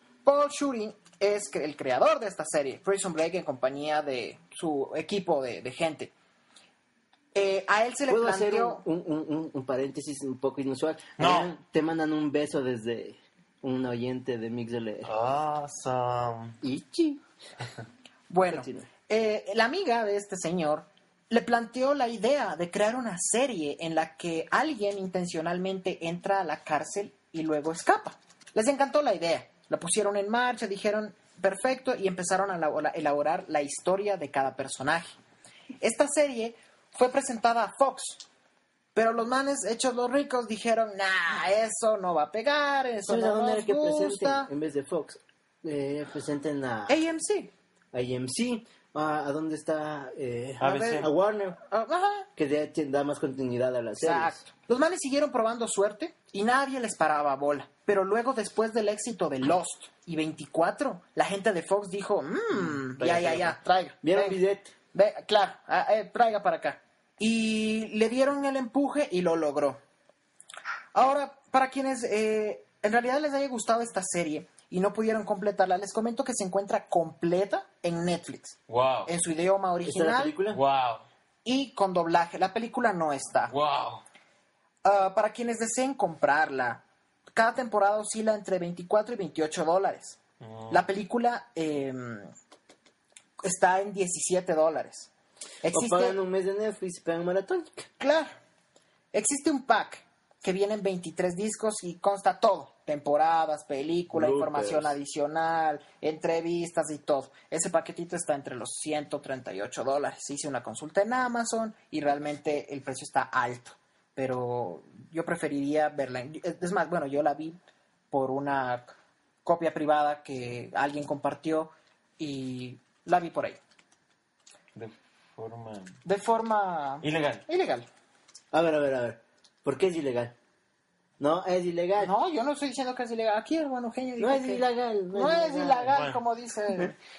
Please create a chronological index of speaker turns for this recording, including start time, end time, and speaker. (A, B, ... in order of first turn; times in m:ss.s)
0:00.2-0:06.1 A
0:07.3-0:08.8 A
0:08.1-0:15.1 B
0:11.2-0:11.5 C
0:15.0-0:16.6 C
0:16.6-0:17.2 B
0:18.3-0:35.2 A
0:18.5-0:18.9 B
0:35.8-0:38.2 A
0:39.0-0:44.5 A
0:43.1-0:47.0 B
0:46.9-0:47.5 A
0:47.9-0:51.6 B
0:50.6-0:51.1 C
0:50.6-0:51.1 A
0:51.7-0:52.3 A
0:52.4-0:54.4 B
0:54.0-1:04.4 A
1:02.6-1:04.7 B
1:04.9-1:09.8 A
1:10.9-1:20.4 A
1:18.7-1:19.1 C
1:19.8-1:20.6 B
1:20.5-1:21.0 C
1:21.4-1:23.5 A
1:23.5-1:24.0 C
1:24.8-1:26.8 A
1:27.3-1:30.2 A
1:30.4-1:30.8 C
1:30.7-1:32.3 A
1:33.4-1:35.1 A
1:35.6-1:36.2 A
1:35.7-1:37.9 B
1:38.0-1:38.3 A
1:39.1-1:57.6 A
1:44.1-1:45.0 B
1:58.1-2:03.6 A
2:04.8-2:06.0 C
2:06.0-2:07.9 A
2:07.0-2:07.4 C
2:08.5-2:10.4 B
2:11.2-2:12.1 B
2:12.0-2:17.0 A
2:14.2-2:15.9 B
2:15.9-2:16.2 C